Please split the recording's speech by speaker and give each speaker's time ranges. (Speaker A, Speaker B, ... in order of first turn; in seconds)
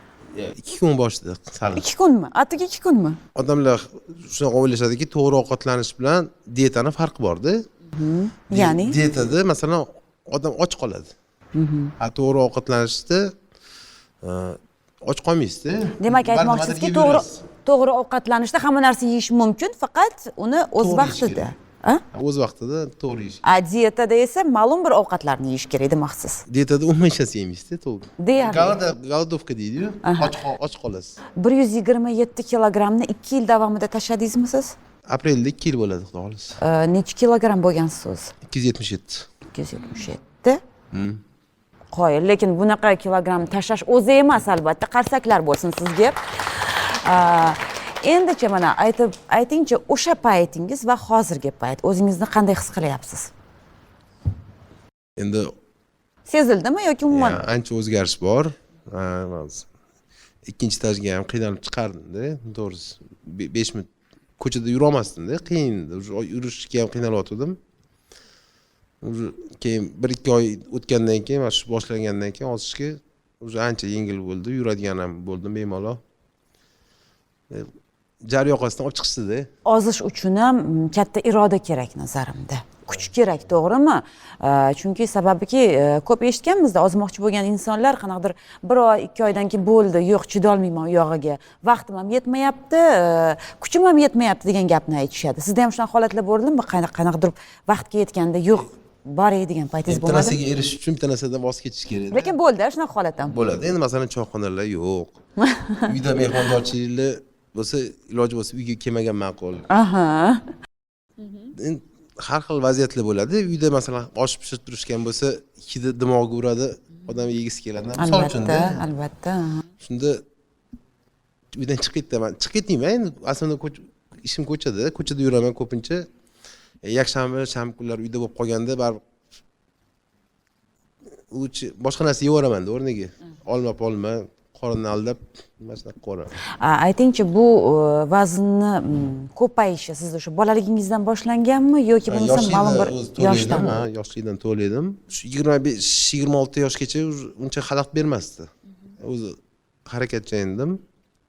Speaker A: 0.3-1.8, 3.3-7.6, 8.5-11.1, 12.0-13.3, 14.2-17.4, 20.8-21.4, 22.1-23.4, 26.5-31.2, 35.1-36.5, 38.5-39.2, 40.9-41.2, 55.2-55.5, 57.1-59.6, 60.5-63.9, 64.4-67.6, 69.0-76.0, 78.2-79.5, 99.9-102.3, 103.3-105.2, 105.8-109.6, 111.5-118.8, 119.8-120.2, 121.5-126.1, 126.8-129.0, 131.3-136.3, 142.1-150.8
Speaker B: 1.8-3.2, 7.9-8.9, 11.5-11.9, 16.0-22.0, 23.4-26.4, 28.2-28.8, 30.0-30.3, 31.4-34.7, 36.6-38.3, 39.5-40.6, 41.9-53.3, 56.3-57.4, 79.7-100.4, 102.1-103.3, 105.4-105.8, 109.7-110.4, 118.0-119.7, 136.6-143.7